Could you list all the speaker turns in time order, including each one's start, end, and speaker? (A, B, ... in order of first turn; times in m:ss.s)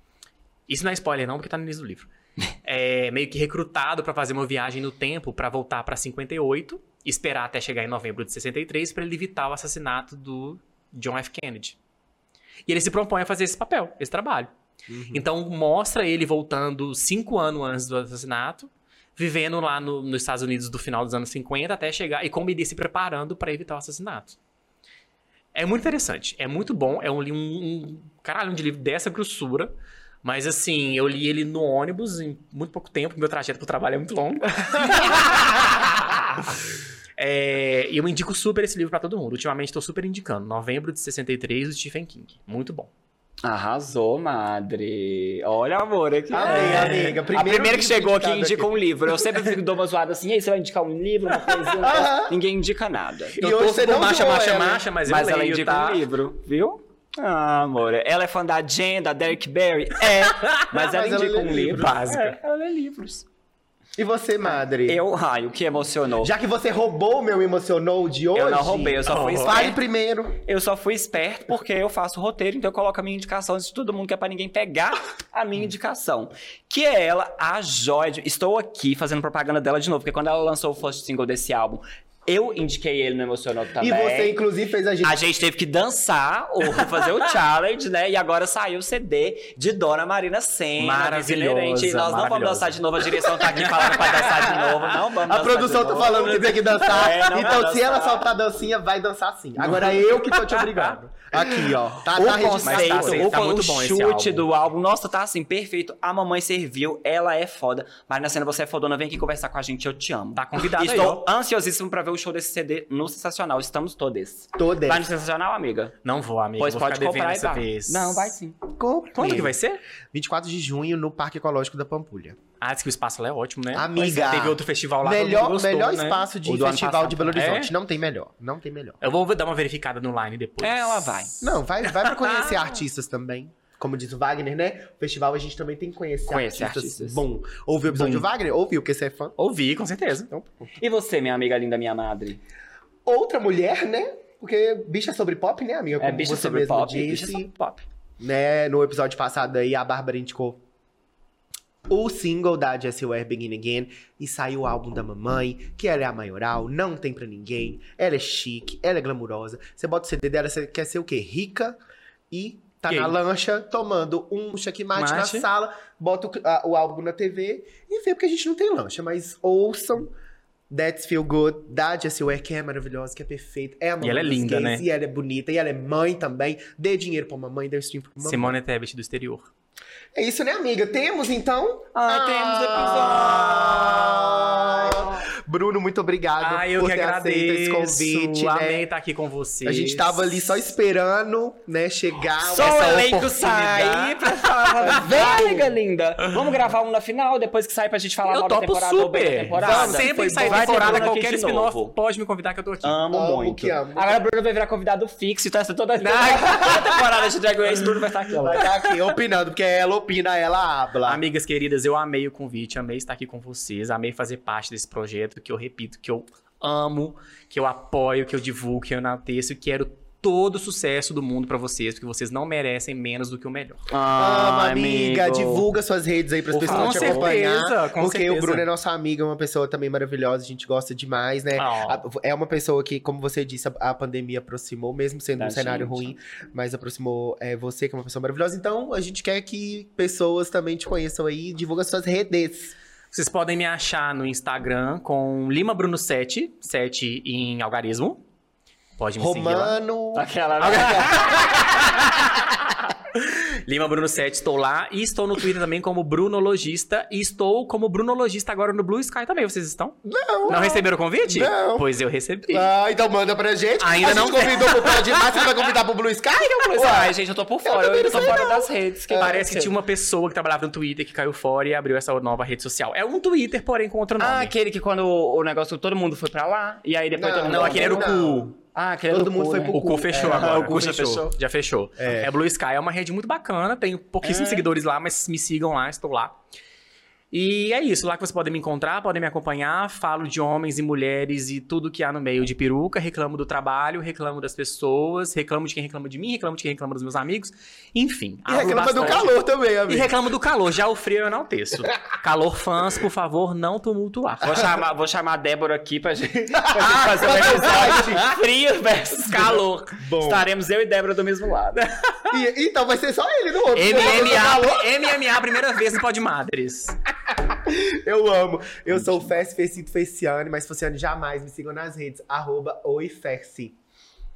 0:00.7-0:02.1 A
0:02.6-0:11.8 A
0:12.7-0:14.5 A
0:14.9-0:15.2 B
0:15.1-0:24.4 A
0:25.5-0:29.7 A
0:30.2-0:42.9 A
0:43.4-0:53.4 C
0:46.3-0:49.4 B
0:46.4-0:47.2 A
0:51.8-0:52.4 B
0:53.4-0:56.0 A
0:53.4-0:54.8 B
0:55.1-1:03.3 C
1:00.4-1:00.7 A
1:00.7-1:02.0 B
1:01.5-1:02.4 A
1:04.0-1:05.0 B
1:04.5-1:06.3 C
1:06.2-1:10.4 B
1:08.4-1:09.8 C
1:09.1-1:09.6 A
1:10.4-1:24.4 C
1:23.8-1:25.2 B
1:25.0-1:38.3 C
1:30.8-1:34.9 A
1:35.2-1:43.3 B
1:36.1-1:37.2 A
1:39.8-1:41.0 A
1:42.1-1:44.4 A
1:42.2-1:55.9 C
1:50.4-1:51.2 A
1:54.6-1:55.1 B
1:56.0-1:58.4 A
1:56.6-1:58.6 C
1:58.8-1:59.6 B
1:59.2-1:59.8 A
2:00.1-2:02.4 B
2:02.6-2:06.3 A
2:03.7-2:09.0 B
2:06.4-2:07.6 C
2:07.3-2:07.7 A
2:09.0-2:12.7 A
2:10.6-2:11.4 C
2:11.4-2:19.4 B
2:16.3-2:17.2 C
2:17.9-2:18.2 A
2:19.4-2:20.3 A
2:20.3-2:20.7 B
2:20.8-2:22.4 C
2:23.1-2:27.5 B
2:26.0-2:27.8 C
2:28.2-2:30.6 B
2:31.9-2:41.8 B
2:42.3-2:50.1 B
2:42.9-2:43.2 A
2:45.0-2:45.5 A
2:50.7-2:58.6 B
2:54.0-2:54.8 A
2:58.2-2:59.5 A
3:00.1-3:08.8 B
3:01.9-3:03.9 C
3:02.8-3:04.3 A
3:04.6-3:05.0 C
3:06.4-3:10.4 A
3:09.6-3:13.1 B
3:12.5-3:21.9 C
3:12.5-3:15.7 A
3:14.9-3:15.4 B
3:16.2-3:16.5 A
3:18.3-3:23.0 A
3:19.6-3:21.1 B
3:22.8-3:28.7 C
3:23.1-3:24.2 B
3:26.0-3:28.8 A
3:28.4-3:31.2 B
3:31.1-3:43.8 A
3:43.9-3:45.7 C
3:44.2-4:02.8 B
3:46.5-3:48.6 A
3:46.6-3:47.4 C
3:51.6-3:52.0 A
3:55.4-3:56.1 C
4:03.1-4:08.2 A
4:09.0-4:09.8 A
4:09.2-4:11.3 B
4:10.1-4:12.0 C
4:10.6-4:12.6 A
4:13.1-4:22.7 A
4:20.0-4:21.9 B
4:22.5-4:29.7 B
4:23.8-4:25.5 A
4:26.4-4:29.4 C
4:29.2-4:34.5 A
4:34.2-4:38.2 C
4:37.2-4:38.5 B
4:37.4-4:38.6 A
4:38.7-4:41.3 C
4:39.1-4:40.8 B
4:39.7-4:46.4 A
4:42.0-4:42.3 B
4:44.2-4:44.7 C
4:47.3-5:04.7 A
4:58.5-5:00.1 B
5:04.4-5:11.8 C
5:06.7-5:08.3 B
5:07.8-5:08.3 A
5:09.2-5:10.0 A
5:10.0-5:10.5 B
5:11.8-5:12.4 A
5:12.3-5:15.0 B
5:13.7-5:17.0 A
5:17.4-5:23.8 B